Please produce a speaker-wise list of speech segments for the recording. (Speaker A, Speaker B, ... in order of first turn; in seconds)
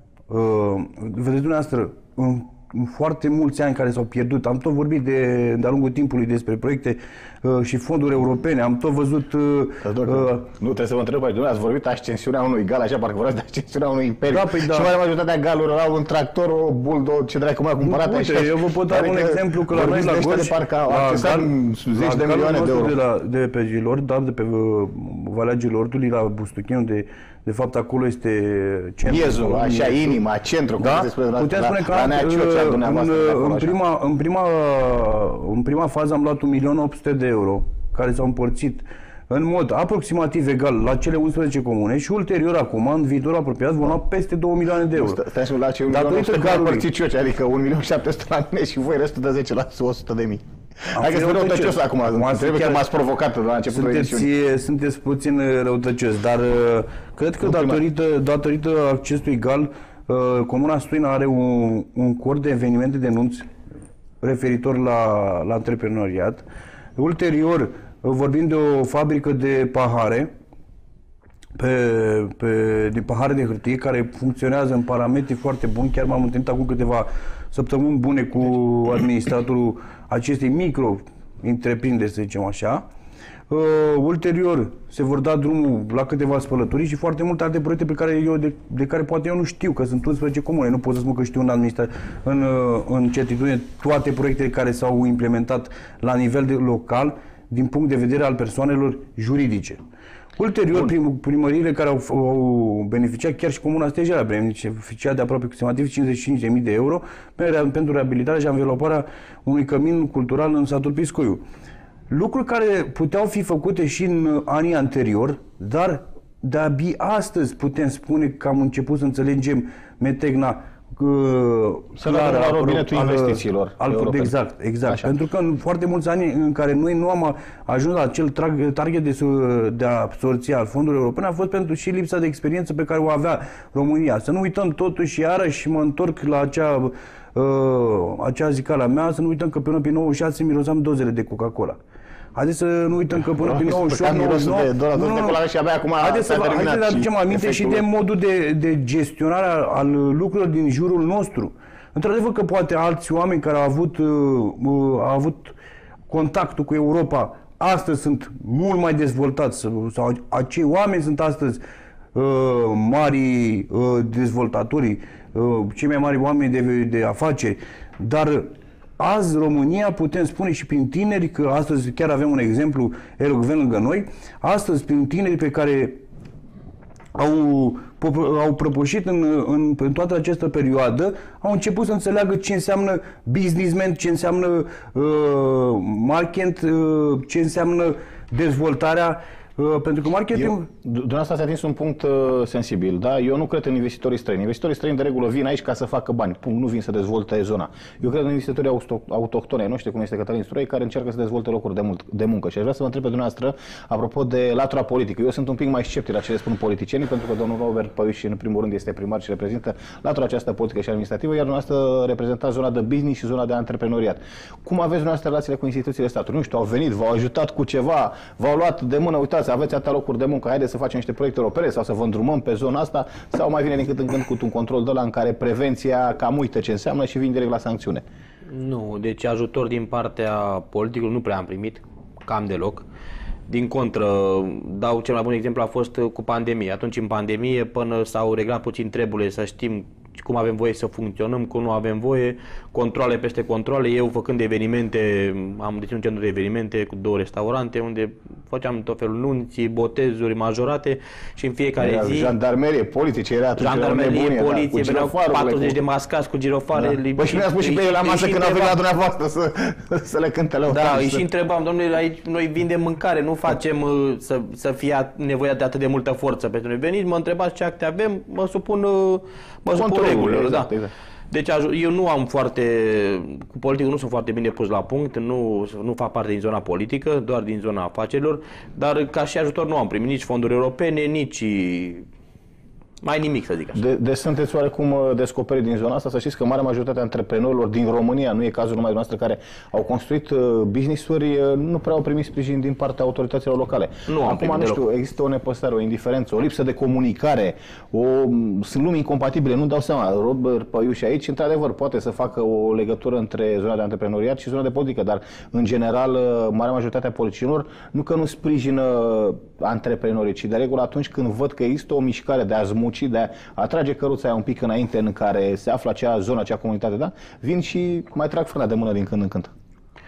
Speaker A: 0.3-10.5, 14.3-14.9, 17.8-30.2, 30.8-45.2, 45.9-46.9, 50.9-52.9, 53.7-63.5, 64.2-66.4, 67.0-70.3, 71.6-82.9, 83.5-99.8, 100.4-111.4, 112.1-141.8, 142.3-145.4, 146.0-155.6, 156.1-161.6, 162.1-176.0, 177.1-190.7
Speaker B: 9.8-23.0, 29.1-33.8, 44.9-54.3, 57.4-57.8, 122.0-124.3, 124.8-125.1, 143.3-147.9, 190.3-228.1, 251.8-255.8, 256.8-261.2, 269.7-270.9, 283.8-319.5
Speaker C: 228.5-232.9, 233.5-252.3, 253.6-258.8, 260.7-270.7, 271.3-282.1, 283.0-283.8, 294.1-294.8